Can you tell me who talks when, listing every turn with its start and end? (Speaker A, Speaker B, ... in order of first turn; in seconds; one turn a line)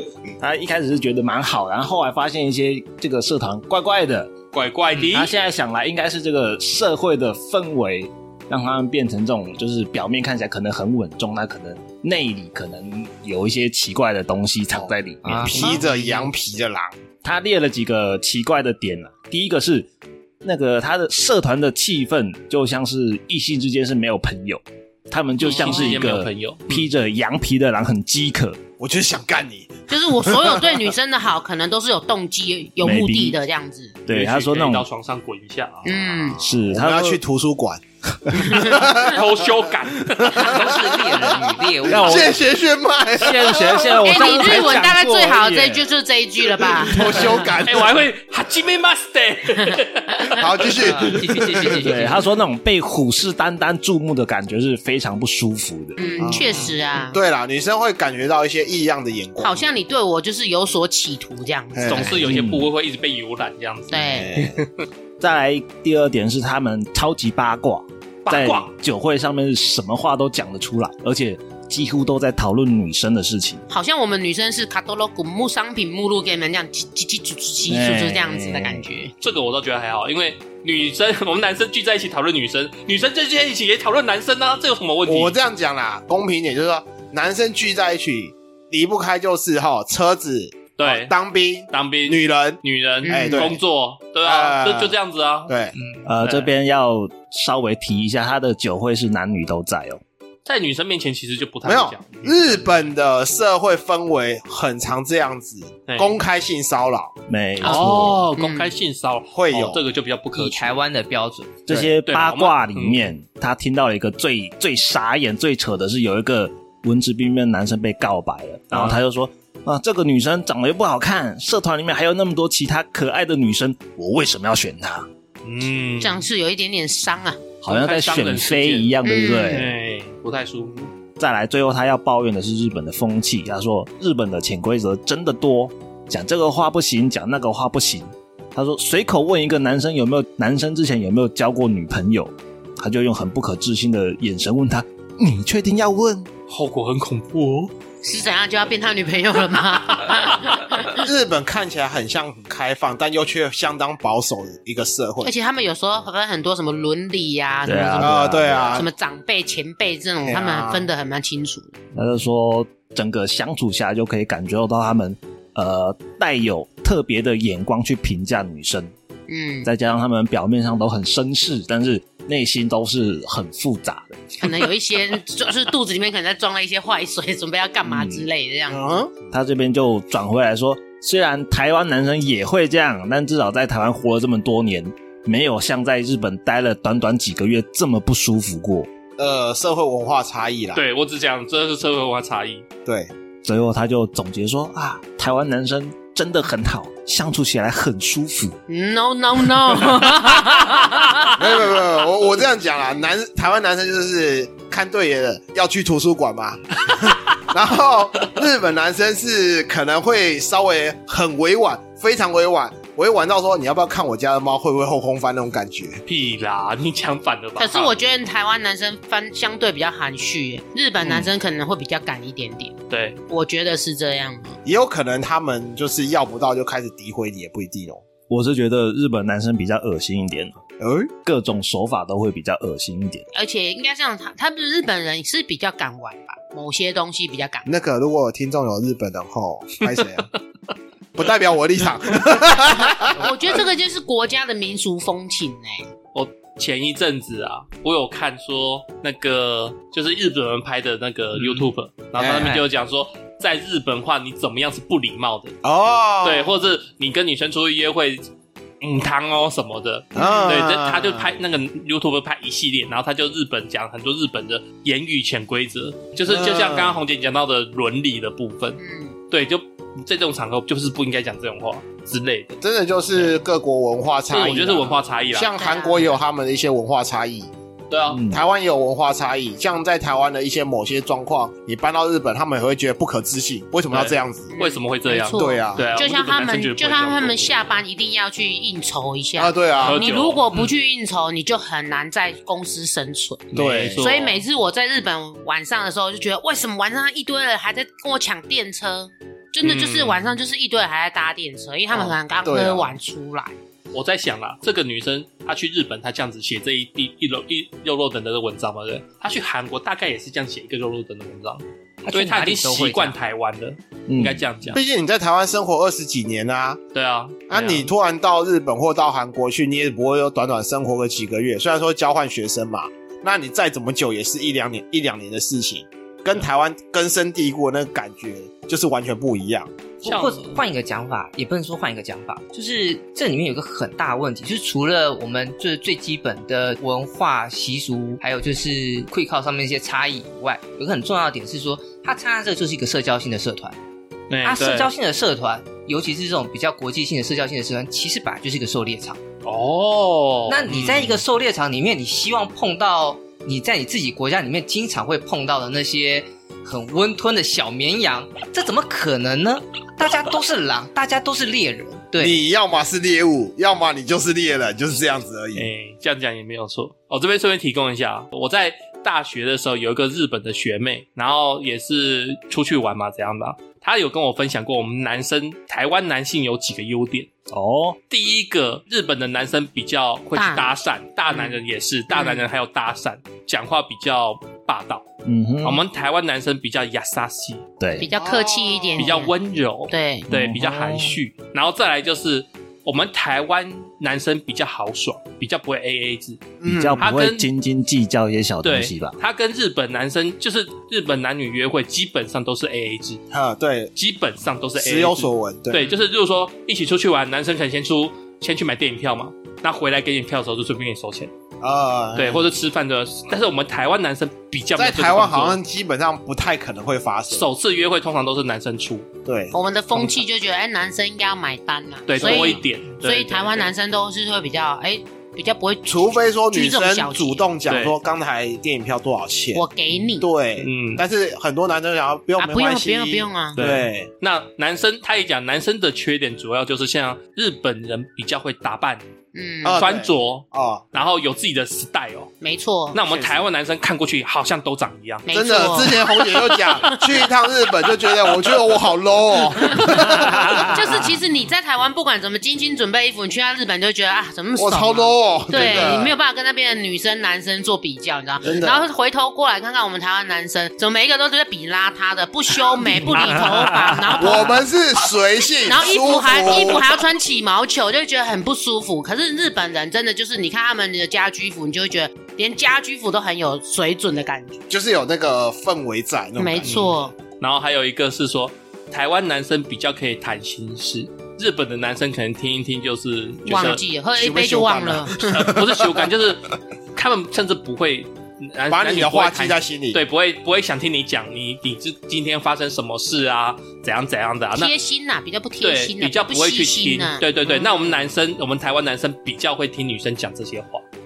Speaker A: 0.4-4.3
Speaker B: 4.5-5.3
Speaker A: 5.0-15.7
Speaker C: 15.2-16.3
Speaker D: 15.5-16.9
Speaker A: 17.2-19.9
Speaker A: 20.4-28.6
Speaker B: 25.4-26.9
Speaker D: 28.8-30.9
Speaker E: 29.9-34.0
Speaker A: 32.8-33.4
Speaker A: 34.0-34.9
Speaker B: 34.1-35.8
Speaker D: 35.8-39.5
Speaker E: 35.8-36.4
Speaker A: 36.4-37.2
Speaker E: 38.3-39.1
Speaker B: 38.6-40.6
Speaker D: 40.1-44.2
Speaker C: 40.4-42.4
Speaker A: 41.9-42.3
Speaker A: 43.1-45.8
Speaker E: 44.0-47.5
Speaker D: 46.6-48.0
Speaker B: 47.6-50.9
Speaker D: 50.4-51.9
Speaker C: 50.8-52.2
Speaker A: 51.8-56.0
Speaker E: 56.0-57.2
Speaker D: 56.2-59.7
Speaker E: 59.4-62.2
Speaker D: 61.7-62.3
Speaker B: 61.9-64.8
Speaker A: 62.2-62.7
Speaker E: 63.9-64.3
Speaker D: 64.0-64.6
Speaker A: 65.2-73.6
Speaker B: 68.2-68.7
Speaker E: 73.7-79.1
Speaker A: 77.7-78.8
Speaker B: 79.2-85.4
Speaker D: 85.0-93.6
Speaker B: 90.8-91.1
Speaker B: 91.7-95.5
Speaker E: 93.0-93.5
Speaker D: 94.2-94.9
Speaker D: 95.5-95.7
Speaker C: 95.7-96.1
Speaker A: 96.0-100.0
Speaker B: 96.2-96.5
Speaker B: 100.4-102.9
Speaker D: 101.6-107.1
Speaker B: 105.9-106.2
Speaker A: 107.3-108.2
Speaker B: 107.6-110.7
Speaker E: 107.6-108.7
Speaker D: 109.3-109.8
Speaker C: 110.3-111.7
Speaker A: 111.7-125.1
Speaker B: 112.0-113.1
Speaker B: 118.7-119.0
Speaker B: 125.4-126.2
Speaker E: 126.0-127.4
Speaker A: 127.6-129.7
Speaker B: 127.7-128.9
Speaker E: 129.0-129.7
Speaker B: 129.5-130.9
Speaker A: 131.2-146.3
Speaker B: 146.5-147.7
Speaker E: 148.0-151.0
Speaker D: 150.9-155.3
Speaker E: 155.2-161.8
Speaker A: 157.6-158.8
Speaker D: 158.0-158.9
Speaker D: 160.2-160.9
Speaker A: 161.9-168.9
Speaker E: 169.3-169.7
Speaker A: 169.6-174.3
Speaker E: 174.4-179.0
Speaker A: 177.8-178.3
Speaker D: 178.7-179.1
Speaker A: 179.3-188.9
Speaker D: 189.2-190.8
Speaker B: 190.7-192.6
Speaker D: 192.8-193.1
Speaker A: 193.4-198.6
Speaker E: 198.7-201.3
Speaker D: 201.3-216.0
Speaker B: 216.1-217.9
Speaker E: 217.6-222.7
Speaker B: 222.9-223.2
Speaker E: 223.3-224.6
Speaker D: 224.6-228.0
Speaker A: 228.3-230.6
Speaker D: 230.8-231.1
Speaker A: 231.2-233.2
Speaker E: 233.3-237.7
Speaker D: 237.7-240.3
Speaker D: 241.1-243.3
Speaker E: 242.9-245.9
Speaker B: 246.1-255.6
Speaker C: 251.4-251.7
Speaker D: 252.2-252.6
Speaker D: 255.6-256.6
Speaker B: 256.2-258.2
Speaker B: 258.8-268.8
Speaker E: 260.1-260.5
Speaker D: 260.1-261.3
Speaker D: 266.2-267.0
Speaker E: 268.8-269.1
Speaker B: 269.3-272.6
Speaker D: 272.6-277.5
Speaker B: 274.3-275.5
Speaker E: 275.5-276.2
Speaker B: 277.9-278.2
Speaker A: 278.1-278.4
Speaker D: 278.3-284.5
Speaker B: 283.9-287.8
Speaker E: 284.5-303.6
Speaker D: 285.3-285.9
Speaker D: 289.4-290.1
Speaker B: 289.8-290.4
Speaker B: 293.5-294.4
Speaker D: 293.5-294.0
Speaker B: 299.6-300.4
Speaker D: 302.4-302.9
Speaker B: 303.9-314.8
Speaker C: 312.0-313.1
Speaker A: 314.1-314.4
Speaker D: 314.7-316.8
Speaker B: 316.9-317.9
Speaker D: 317.5-329.7
Speaker C: 330.0-343.8
Speaker B: 330.0-330.6
Speaker B: 344.3-344.9
Speaker C: 344.4-349.2
Speaker B: 349.4-351.2
Speaker C: 350.5-362.4
Speaker D: 362.1-365.6
Speaker B: 365.5-377.3
Speaker A: 377.5-378.0
Speaker B: 378.1-385.0
Speaker E: 380.3-380.7
Speaker E: 381.3-381.6
Speaker E: 382.1-382.4
Speaker A: 385.2-385.8
Speaker B: 385.6-387.6
Speaker A: 387.8-388.1
Speaker E: 388.0-389.3
Speaker D: 388.0-389.2
Speaker B: 389.0-396.4
Speaker E: 389.9-390.3
Speaker A: 390.3-391.2
Speaker D: 396.6-397.1
Speaker A: 396.6-399.2
Speaker B: 397.0-397.5
Speaker B: 398.6-403.2
Speaker D: 403.3-403.9
Speaker B: 403.9-411.3
Speaker D: 404.8-405.8
Speaker D: 411.6-412.5
Speaker B: 412.1-415.6
Speaker D: 414.8-417.5
Speaker B: 417.3-419.1
Speaker D: 419.2-419.5
Speaker E: 419.5-427.4
Speaker B: 422.1-423.7
Speaker D: 422.2-422.6
Speaker D: 425.9-429.6
Speaker B: 427.7-427.9
Speaker E: 429.5-430.2
Speaker D: 430.2-434.1
Speaker B: 430.6-431.0
Speaker E: 432.4-433.6
Speaker B: 433.6-439.0
Speaker E: 439.3-439.8
Speaker D: 439.6-440.8
Speaker B: 439.8-442.3
Speaker E: 442.4-443.3
Speaker B: 442.9-445.3
Speaker E: 445.3-447.0
Speaker D: 445.3-451.1
Speaker E: 449.6-464.6
Speaker A: 450.2-450.6
Speaker D: 454.6-456.1
Speaker D: 458.4-458.9
Speaker A: 463.5-464.2
Speaker D: 464.2-467.0
Speaker E: 465.6-474.6
Speaker D: 474.7-476.9
Speaker E: 476.4-477.1
Speaker B: 476.6-483.8
Speaker E: 483.4-485.2
Speaker D: 484.2-486.1
Speaker B: 485.3-494.7
Speaker D: 488.7-490.0
Speaker E: 494.5-498.1
Speaker B: 495.6-500.8